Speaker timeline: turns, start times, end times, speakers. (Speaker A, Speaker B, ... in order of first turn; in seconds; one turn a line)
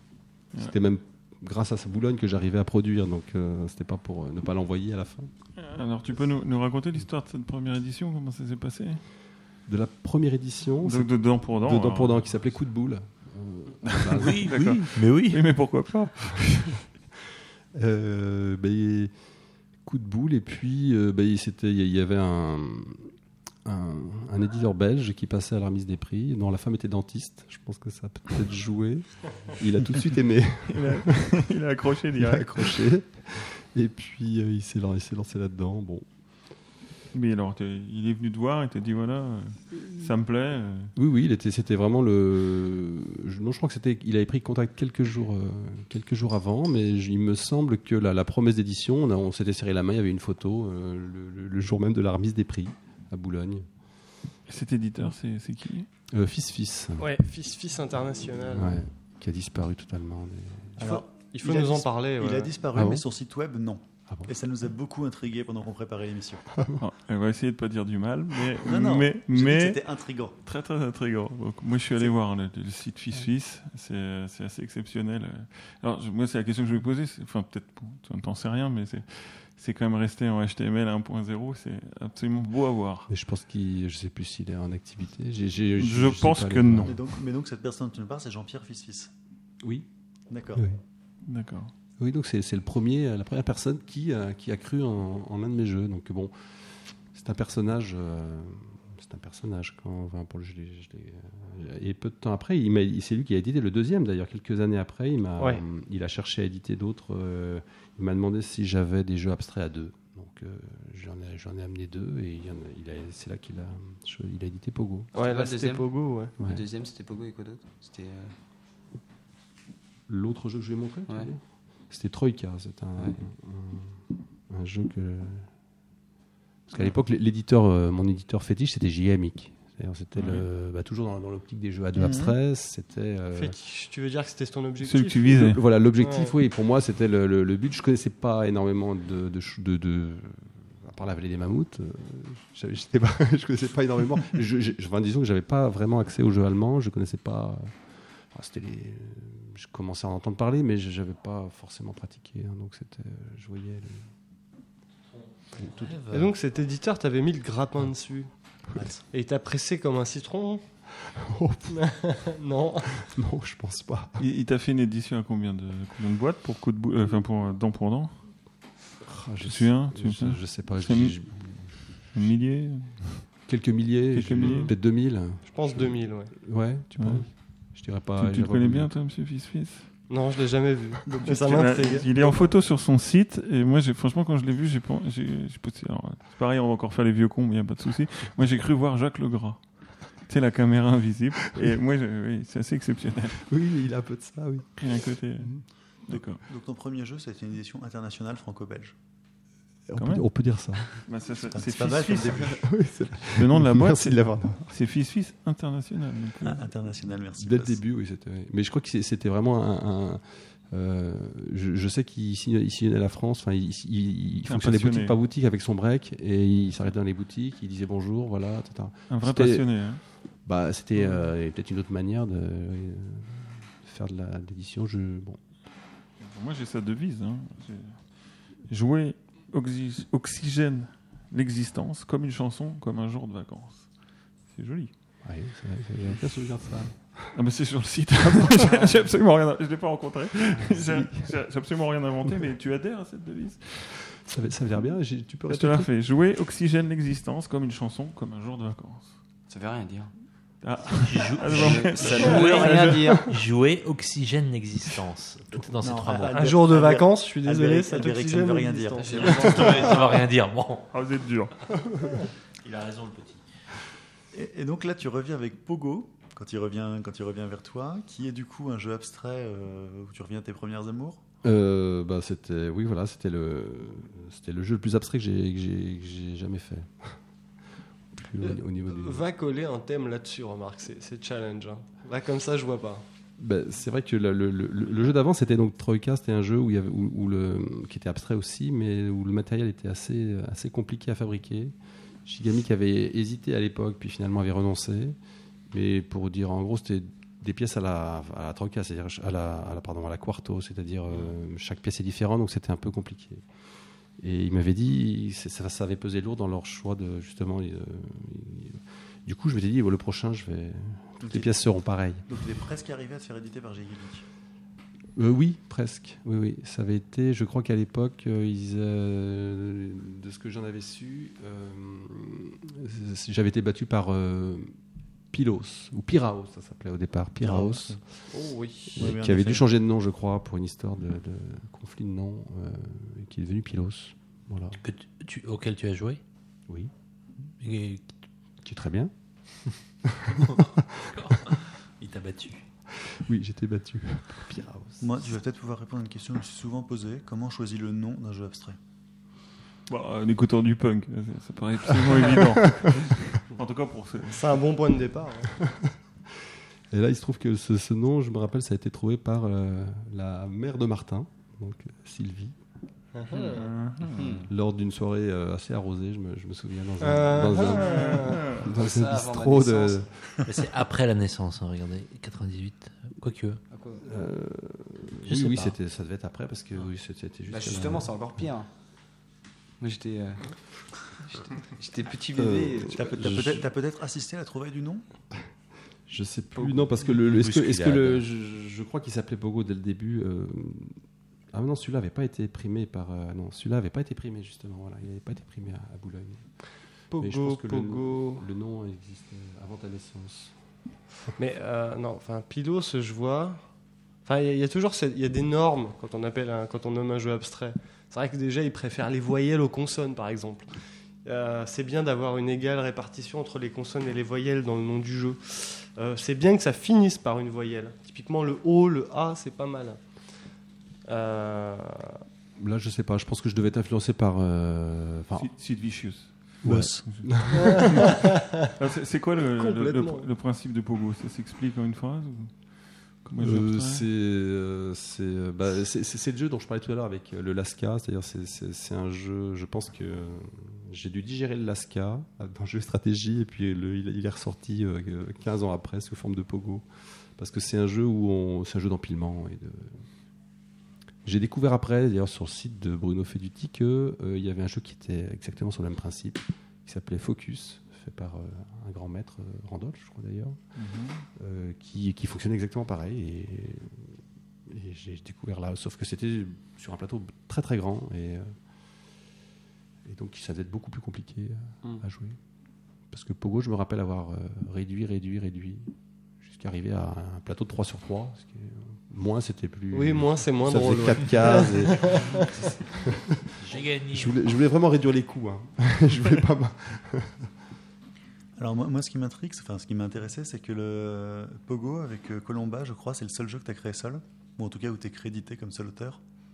Speaker A: 0.6-5.3
Speaker B: 5.6-9.0
Speaker A: 9.7-14.5
Speaker B: 10.8-12.2
Speaker B: 13.8-16.8
Speaker C: 14.1-15.4
Speaker A: 17.7-19.1
Speaker A: 19.8-23.1
Speaker A: 23.6-31.3
Speaker B: 30.7-32.8
Speaker A: 32.1-36.0
Speaker B: 37.1-40.9
Speaker A: 41.0-53.6
Speaker B: 54.5-55.9
Speaker A: 56.1-57.1
Speaker D: 57.0-58.8
Speaker A: 58.5-60.8
Speaker E: 60.8-66.4
Speaker D: 60.8-62.5
Speaker A: 62.7-63.0
Speaker B: 66.8-69.9
Speaker E: 68.6-70.3
Speaker B: 70.4-83.1
Speaker A: 83.1-87.0
Speaker B: 85.8-87.0
Speaker E: 86.8-89.1
Speaker A: 89.6-89.9
Speaker E: 90.3-90.6
Speaker A: 90.5-90.8
Speaker B: 91.2-91.7
Speaker A: 92.0-96.5
Speaker A: 97.1-115.1
Speaker D: 115.1-116.3
Speaker F: 115.2-118.3
Speaker A: 120.1-125.5
Speaker A: 126.7-133.5
Speaker B: 130.1-130.5
Speaker E: 131.9-132.3
Speaker D: 133.3-135.5
Speaker B: 134.8-135.6
Speaker A: 135.3-147.7
Speaker D: 136.0-136.3
Speaker A: 148.3-154.1
Speaker A: 155.6-156.0
Speaker C: 155.6-156.3
Speaker D: 156.1-158.3
Speaker E: 158.7-159.0
Speaker D: 159.1-160.6
Speaker A: 161.0-161.8
Speaker D: 161.7-163.0
Speaker A: 162.9-164.2
Speaker B: 164.2-168.2
Speaker A: 169.0-172.3
Speaker B: 169.4-171.2
Speaker B: 172.0-173.3
Speaker A: 173.5-178.9
Speaker B: 174.1-174.7
Speaker D: 174.4-174.7
Speaker D: 175.4-176.3
Speaker B: 177.0-177.3
Speaker B: 178.2-179.9
Speaker D: 180.1-182.5
Speaker E: 181.1-181.9
Speaker B: 181.2-189.6
Speaker B: 190.2-193.4
Speaker A: 193.5-194.8
Speaker B: 194.8-196.4
Speaker E: 196.1-198.9
Speaker A: 199.9-200.9
Speaker B: 200.0-200.3
Speaker B: 200.9-202.6
Speaker E: 201.5-202.6
Speaker A: 202.5-204.7
Speaker B: 203.3-206.7
Speaker E: 206.4-207.8
Speaker A: 207.4-219.7
Speaker B: 214.4-215.2
Speaker B: 219.1-220.0
Speaker A: 220.4-225.4
Speaker B: 220.9-221.3
Speaker B: 226.2-228.0
Speaker B: 228.7-233.9
Speaker B: 234.5-234.9
Speaker A: 235.2-237.3
Speaker B: 237.3-244.1
Speaker A: 238.3-238.8
Speaker A: 240.6-241.3
Speaker A: 244.2-245.9
Speaker B: 245.5-249.2
Speaker F: 249.5-250.1
Speaker B: 250.6-253.2
Speaker C: 251.0-256.5
Speaker F: 251.5-253.3
Speaker E: 255.8-259.6
Speaker D: 256.3-259.9
Speaker F: 259.0-260.1
Speaker C: 259.3-260.9
Speaker B: 260.9-261.5
Speaker C: 262.6-263.4
Speaker E: 264.3-271.2
Speaker A: 271.4-277.1
Speaker A: 278.1-279.3
Speaker D: 278.4-283.0
Speaker A: 283.4-291.7
Speaker A: 292.2-295.2
Speaker A: 295.7-303.4
Speaker A: 304.2-312.2
Speaker E: 311.2-311.5
Speaker E: 312.3-314.2
Speaker A: 315.1-324.7
Speaker A: 325.3-328.0
Speaker E: 327.4-328.0
Speaker D: 328.3-328.9
Speaker A: 328.9-334.8
Speaker E: 328.9-329.6
Speaker C: 334.8-336.2
Speaker C: 337.6-338.1
Speaker A: 338.6-339.1
Speaker A: 340.0-341.5
Speaker C: 341.1-342.6
Speaker A: 342.9-345.4
Speaker E: 345.0-348.8
Speaker B: 349.9-354.4
Speaker A: 352.1-353.0
Speaker D: 354.3-355.5
Speaker A: 355.6-355.9
Speaker A: 356.9-362.6
Speaker D: 363.1-363.7
Speaker B: 363.4-364.4
Speaker F: 364.1-364.5
Speaker A: 364.4-370.1
Speaker D: 367.0-368.4
Speaker B: 367.8-368.6
Speaker F: 368.6-370.1
Speaker C: 370.4-373.6
Speaker F: 373.7-374.1
Speaker A: 374.0-378.1
Speaker C: 375.2-375.7
Speaker F: 377.5-378.7
Speaker F: 379.8-380.4
Speaker F: 381.3-383.0
Speaker A: 382.3-383.7
Speaker E: 382.9-385.0
Speaker A: 386.1-391.0
Speaker F: 387.4-387.9
Speaker C: 387.9-388.2
Speaker A: 391.5-396.4
Speaker D: 397.1-398.4
Speaker A: 397.2-400.6
Speaker D: 401.4-403.6
Speaker D: 404.2-410.7
Speaker D: 411.2-420.0
Speaker D: 421.1-422.2
Speaker A: 422.6-425.5
Speaker B: 425.4-432.5
Speaker A: 426.6-428.1
Speaker E: 426.6-427.0
Speaker D: 427.5-428.6
Speaker D: 429.4-430.3
Speaker B: 433.2-434.1
Speaker A: 433.4-446.9
Speaker A: 447.4-450.0
Speaker A: 451.2-460.6
Speaker B: 460.8-461.2
Speaker A: 461.4-468.5
Speaker A: 470.0-472.4
Speaker A: 473.1-487.5
Speaker D: 479.9-482.5
Speaker C: 483.6-484.4
Speaker E: 488.6-496.2